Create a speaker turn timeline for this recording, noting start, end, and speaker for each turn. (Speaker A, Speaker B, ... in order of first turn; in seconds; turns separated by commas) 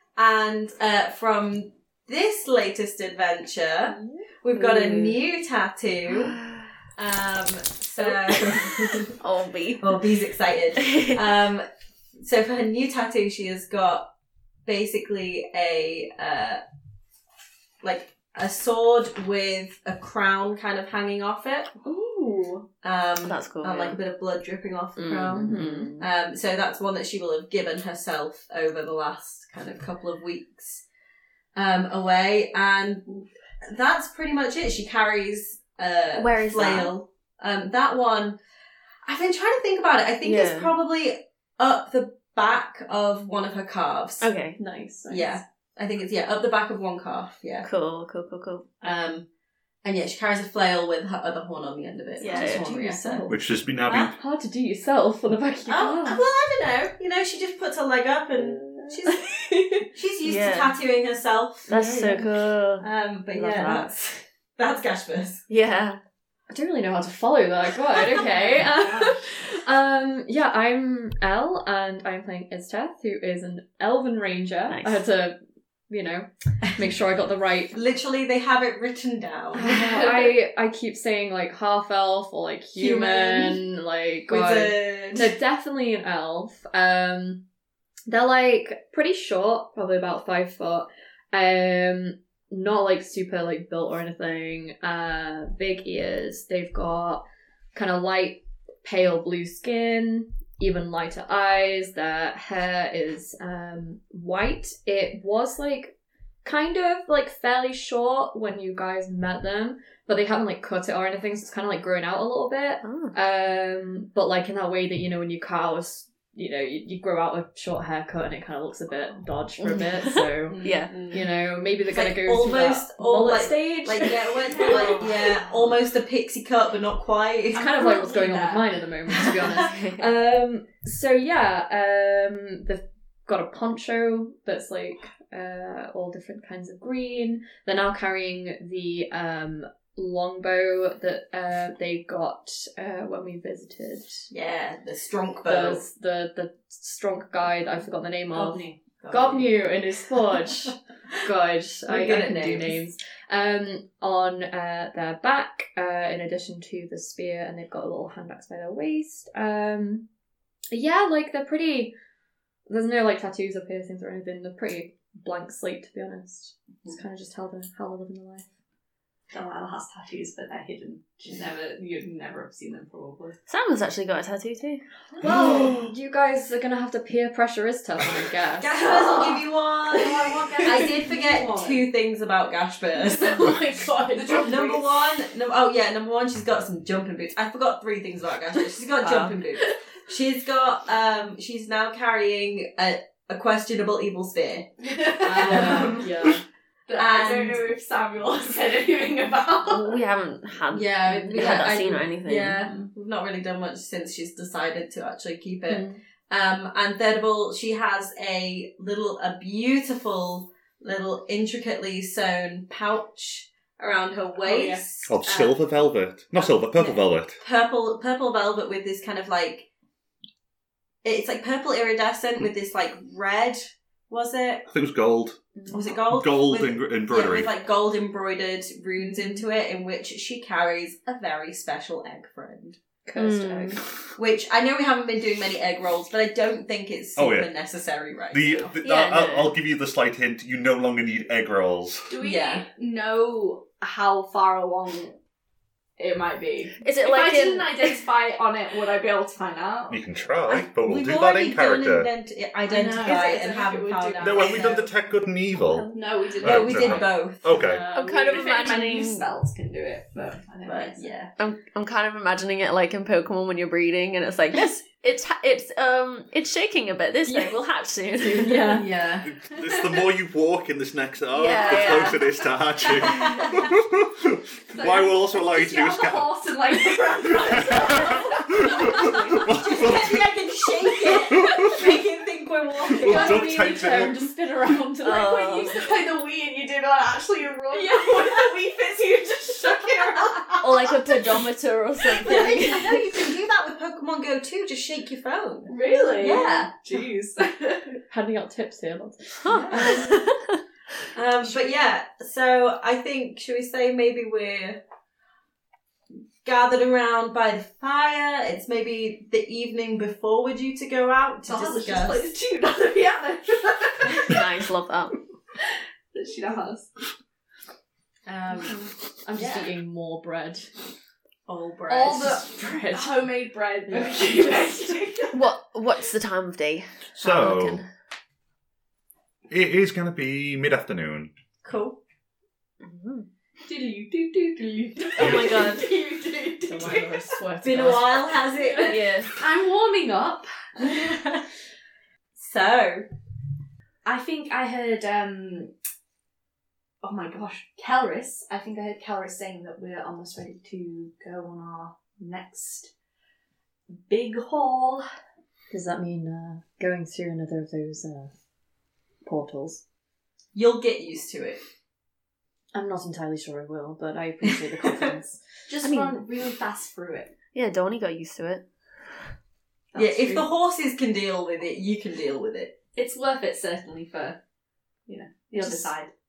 Speaker A: 0.1-6.4, Speaker B: 4.5-5.2, Speaker B: 6.1-6.7, Speaker A: 7.0-9.1, Speaker B: 8.0-10.0, Speaker A: 9.8-11.7, Speaker B: 10.8-11.2, Speaker A: 12.2-14.1, Speaker A: 14.7-16.6, Speaker A: 17.8-21.7, Speaker C: 21.8-22.6, Speaker A: 22.8-30.8, Speaker B: 23.2-24.0, Speaker B: 25.0-26.0, Speaker D: 25.4-25.9, Speaker A: 31.5-38.4, Speaker B: 36.1-36.9, Speaker A: 39.0-44.3, Speaker B: 40.2-40.7, Speaker B: 44.2-44.6, Speaker D: 44.6-45.3, Speaker A: 45.1-47.7, Speaker B: 47.6-48.7, Speaker A: 48.8-49.3, Speaker A: 49.8-53.3, Speaker B: 52.2-52.8, Speaker D: 52.3-53.4, Speaker E: 53.3-54.1, Speaker D: 54.1-56.2, Speaker A: 55.7-59.2, Speaker A: 59.9-61.8, Speaker B: 60.2-60.8, Speaker B: 61.7-63.9, Speaker D: 61.7-62.2, Speaker A: 62.8-65.4, Speaker B: 65.5-66.0, Speaker D: 66.5-75.4, Speaker C: 68.4-69.1, Speaker B: 74.7-75.0, Speaker D: 75.9-77.8, Speaker A: 77.7-80.3, Speaker D: 79.5-87.4, Speaker A: 82.7-83.6, Speaker A: 84.3-85.3, Speaker D: 88.1-125.0, Speaker B: 112.8-113.1, Speaker B: 119.6-120.9, Speaker A: 120.5-121.2, Speaker A: 121.8-128.1, Speaker C: 124.5-125.0, Speaker D: 127.5-144.3, Speaker C: 127.8-128.6, Speaker A: 129.1-129.6, Speaker B: 129.6-130.0, Speaker A: 144.3-145.8, Speaker D: 145.4-160.1, Speaker A: 148.3-149.5, Speaker A: 151.8-152.8, Speaker D: 160.7-161.9, Speaker D: 162.7-168.5, Speaker C: 169.3-173.4, Speaker B: 173.5-174.8, Speaker D: 175.2-178.8, Speaker A: 175.2-175.8, Speaker A: 178.6-183.4, Speaker C: 178.8-179.3, Speaker C: 179.9-181.8, Speaker C: 183.0-184.9, Speaker A: 184.4-196.4, Speaker B: 189.0-189.3, Speaker C: 194.8-196.0, Speaker D: 195.4-196.4, Speaker C: 196.9-199.9, Speaker A: 196.9-197.6, Speaker B: 199.7-202.6, Speaker A: 200.7-215.5, Speaker D: 205.7-206.0, Speaker C: 214.4-214.8, Speaker E: 215.0-217.4, Speaker A: 216.3-219.7, Speaker A: 221.0-224.6, Speaker E: 224.7-225.4, Speaker A: 225.7-232.8, Speaker E: 226.1-227.5, Speaker D: 233.1-233.8, Speaker B: 233.2-233.8, Speaker A: 234.2-238.7, Speaker E: 237.2-237.5, Speaker E: 238.3-242.1, Speaker B: 238.8-239.5, Speaker C: 242.1-245.2, Speaker A: 242.2-242.7, Speaker C: 246.0-250.0, Speaker B: 246.8-248.0, Speaker E: 249.9-252.1, Speaker A: 250.5-254.8, Speaker C: 252.7-254.8, Speaker E: 254.2-255.9, Speaker B: 255.5-255.9, Speaker C: 255.9-257.1, Speaker E: 256.4-257.8, Speaker A: 256.4-257.4, Speaker D: 257.5-258.3, Speaker C: 257.7-261.1, Speaker B: 257.9-259.2, Speaker A: 260.6-261.3, Speaker B: 261.4-268.8, Speaker D: 268.2-269.1, Speaker A: 268.4-268.8, Speaker C: 268.7-270.0, Speaker E: 269.2-276.4, Speaker B: 271.3-272.2, Speaker C: 271.7-272.2, Speaker C: 272.9-273.2, Speaker C: 274.7-279.8, Speaker E: 277.3-280.3, Speaker A: 279.4-283.5, Speaker E: 282.9-284.3, Speaker D: 283.0-285.7, Speaker B: 285.0-285.8, Speaker C: 285.0-290.4, Speaker B: 290.6-293.0, Speaker A: 292.2-296.7, Speaker C: 295.7-297.9, Speaker D: 296.0-296.4, Speaker D: 298.1-300.2, Speaker B: 299.4-300.6, Speaker C: 299.5-299.9, Speaker A: 299.7-300.0, Speaker A: 301.1-304.8, Speaker A: 306.4-312.3, Speaker C: 311.4-314.4, Speaker B: 314.2-315.2, Speaker C: 316.1-316.9, Speaker A: 318.3-318.7, Speaker D: 318.4-320.7, Speaker C: 319.4-319.7, Speaker A: 321.5-322.4, Speaker D: 321.9-323.3, Speaker C: 321.9-325.4, Speaker D: 323.9-324.8, Speaker B: 325.3-327.9, Speaker E: 327.2-327.8, Speaker E: 329.5-331.3, Speaker A: 331.6-332.0, Speaker B: 332.8-333.3, Speaker C: 333.6-337.4, Speaker B: 335.2-335.9, Speaker D: 336.6-338.3, Speaker A: 337.6-339.0, Speaker C: 338.6-340.8, Speaker B: 338.9-339.3, Speaker A: 342.4-343.1, Speaker C: 344.0-345.7, Speaker C: 347.0-352.9, Speaker C: 353.9-355.0, Speaker D: 355.7-358.3, Speaker D: 359.2-359.8, Speaker A: 360.5-361.6, Speaker D: 362.7-365.4, Speaker A: 364.4-365.1, Speaker C: 365.7-367.3, Speaker B: 365.8-366.1, Speaker B: 367.5-368.6, Speaker C: 369.9-370.5, Speaker A: 369.9-372.7, Speaker C: 372.9-374.4, Speaker C: 375.1-376.1, Speaker D: 375.6-375.9